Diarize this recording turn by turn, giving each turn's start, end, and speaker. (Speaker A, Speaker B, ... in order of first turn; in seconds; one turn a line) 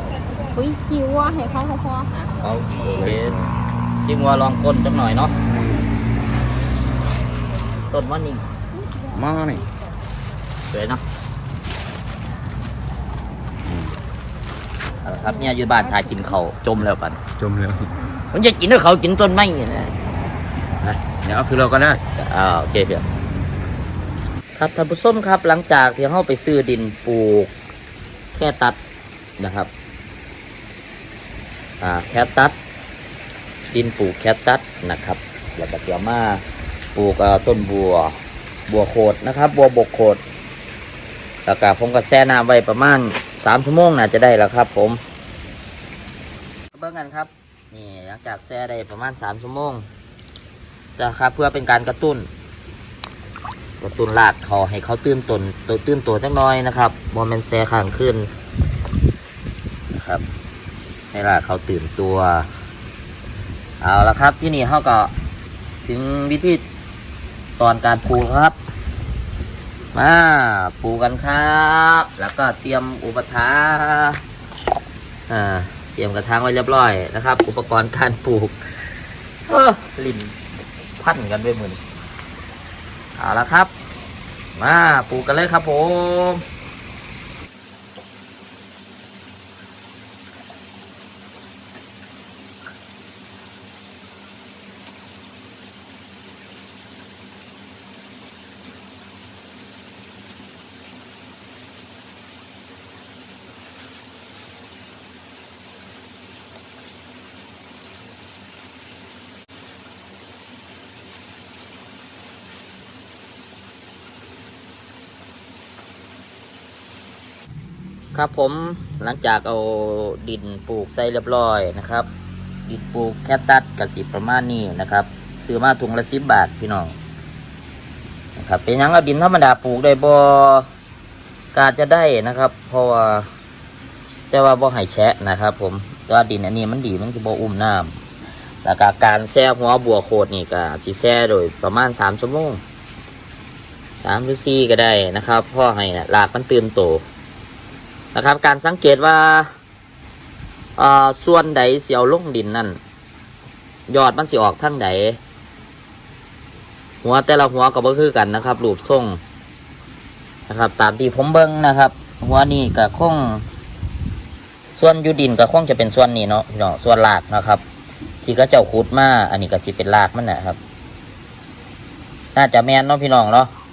Speaker A: 0.5-2.4
Speaker B: 2.4-3.4
Speaker C: 2.8-3.5
Speaker B: 4.0-5.3
Speaker C: 5.5-5.9
Speaker B: 7.9-8.4
Speaker A: 8.7-10.0
Speaker C: 9.1-9.6
Speaker B: 10.7-11.0
Speaker C: 13.6-14.0
Speaker B: 15.0-17.2
Speaker A: 15.2-16.4
Speaker C: 17.4-17.9
Speaker B: 18.3-19.9
Speaker C: 20.8-22.0
Speaker B: 22.1-23.1
Speaker B: 24.5-27.5
Speaker B: 28.3-28.8
Speaker B: 29.4-29.7
Speaker B: 31.8-32.5
Speaker B: 33.7-36.4
Speaker B: 36.9-38.1
Speaker B: 38.7-40.2
Speaker B: 41.5-45.0
Speaker B: 46.7-49.9
Speaker B: 51.0-52.3
Speaker B: 53.8-58.3
Speaker B: 59.9-60.2
Speaker B: 61.1-62.5
Speaker B: 63.8-65.1
Speaker B: 65.8-66.6
Speaker B: 67.6-68.5
Speaker B: 69.9-74.2
Speaker B: 75.3-78.9
Speaker B: 79.5-80.3
Speaker B: 81.0-81.8
Speaker B: 83.2-83.7
Speaker B: 84.5-86.4
Speaker B: 118.1-122.1
Speaker B: 122.7-127.0
Speaker B: 128.3-130.7
Speaker B: 131.5-133.3
Speaker B: 134.3-138.0
Speaker B: 138.6-142.6
Speaker B: 144.0-147.0
Speaker B: 148.1-149.5
Speaker B: 150.8-152.8
Speaker B: 153.9-155.2
Speaker B: 157.0-159.2
Speaker B: 160.5-163.4
Speaker B: 164.7-167.6
Speaker B: 168.2-170.6
Speaker B: 172.3-173.5